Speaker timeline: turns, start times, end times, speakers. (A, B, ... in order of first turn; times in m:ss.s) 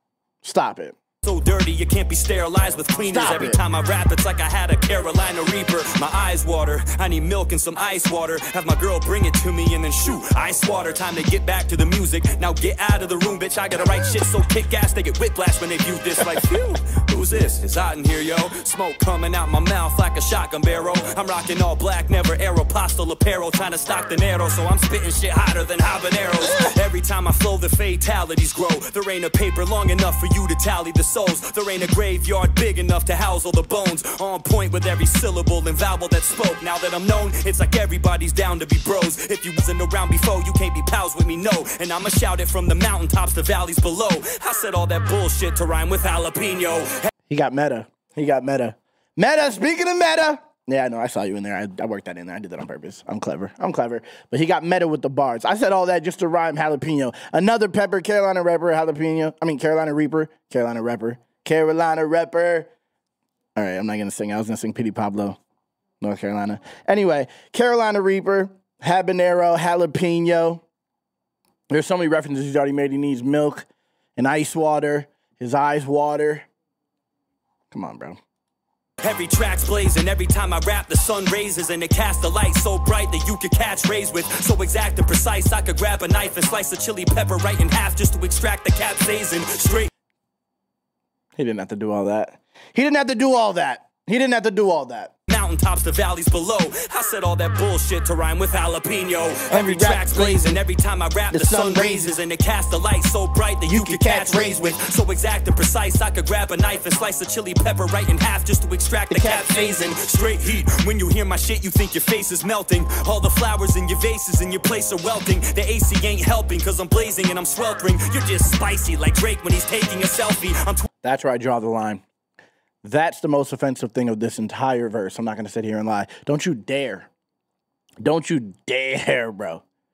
0:00.4-0:01.0 A
0:01.2-0:47.1 B
0:03.1-0:03.6 A
0:47.3-1:02.7 A
1:03.6-1:05.4 A
1:06.0-1:10.6 A
1:11.7-1:16.5 A
1:17.7-1:18.2 A
1:19.0-1:29.9 B
1:31.4-1:35.1 A
1:35.3-2:00.8 B
1:39.5-1:40.6 A
1:41.3-1:42.0 A
1:43.7-1:44.7 A
1:49.1-1:50.0 A
2:01.0-2:02.0 A
2:02.8-2:07.1 A
2:08.0-2:09.6 A